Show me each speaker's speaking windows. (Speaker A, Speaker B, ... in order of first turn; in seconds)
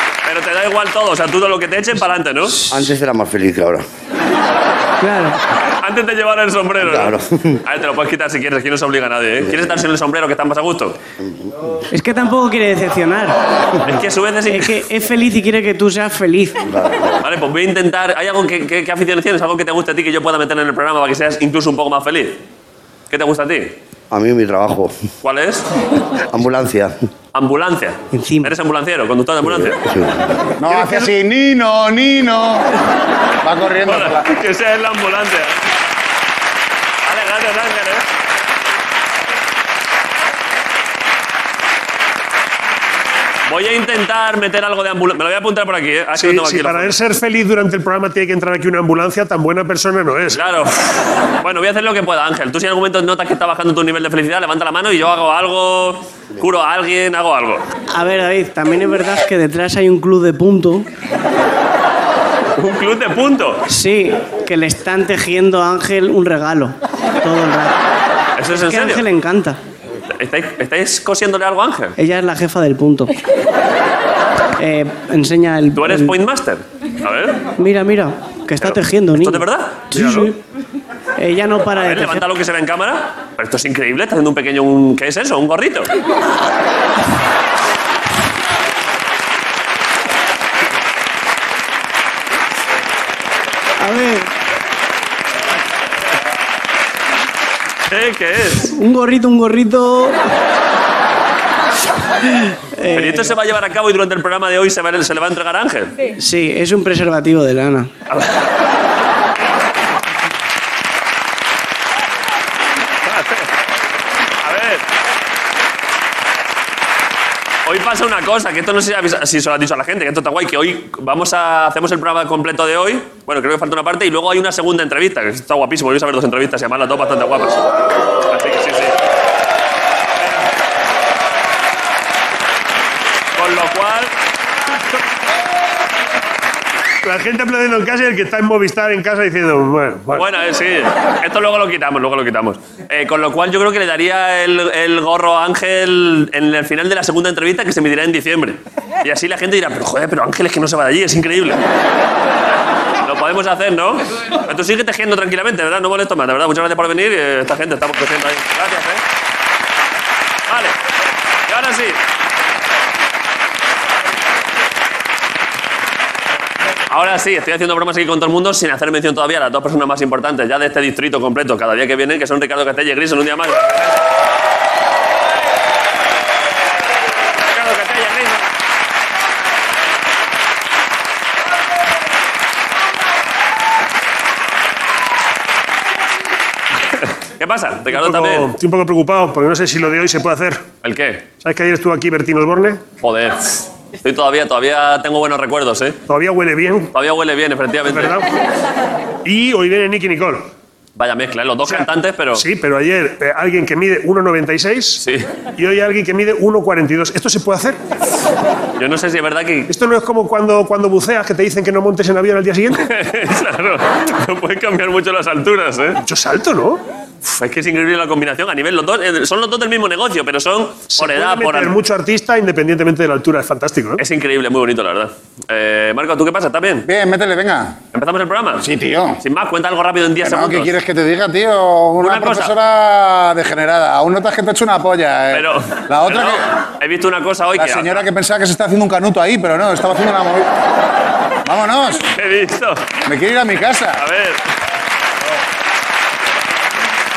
Speaker A: 0.2-2.5, 5.8-11.0, 13.8-14.8, 17.2-22.4, 23.1-23.8, 25.2-25.7, 27.3-29.8, 30.7-31.1, 33.8-35.6, 37.0-38.0, 43.5-46.9, 50.3-57.6, 62.5-63.6, 68.4-69.0, 70.1-72.0, 75.7-77.4, 78.6-80.2, 81.8-85.9, 97.9-98.7, 102.9-105.9, 108.1-108.4, 113.1-113.5, 114.4-114.8, 117.7-127.6, 128.3-128.9, 133.3-134.1, 140.1-151.6, 153.0-159.0, 160.5-160.8, 161.5-162.0, 166.9-173.8, 177.5-178.4, 186.9-188.5, 190.8-191.3, 193.0-196.0, 196.9-198.2, 201.0-202.4, 205.0-205.2, 208.8-209.7, 212.8-216.0, 217.2-221.7, 224.0-226.9, 227.9-228.7, 229.2-230.7, 232.0-232.5, 235.3-238.0, 242.0-243.0, 243.9-244.4
Speaker B: 2.7-3.8, 6.8-7.6, 9.4-9.8, 11.2-11.6, 16.7-17.2, 24.1-24.9, 26.3-26.9, 29.5-30.5
Speaker C: 5.0-5.4, 11.9-13.3, 14.5-16.7, 28.1-28.5, 57.9-60.8, 63.7-67.8, 68.5-69.6, 72.0-73.1, 74.6-76.2, 77.6-80.4, 81.2-82.3, 93.8-94.3, 98.8-100.2, 102.3-103.3, 106.2-107.9
Speaker D: 30.6-32.7, 33.4-34.3, 226.9-227.8, 228.6-229.2, 230.2-236.5, 237.6-240.5, 241.4-242.1, 243.1-244.0
Speaker E: 46.1-50.4, 137.0-140.2, 187.9-190.6, 191.4-192.8, 196.1-196.9, 197.8-198.3, 199.2-200.5, 201.6-205.0, 205.6-207.8, 209.7-212.9, 216.0-216.8, 220.9-224.0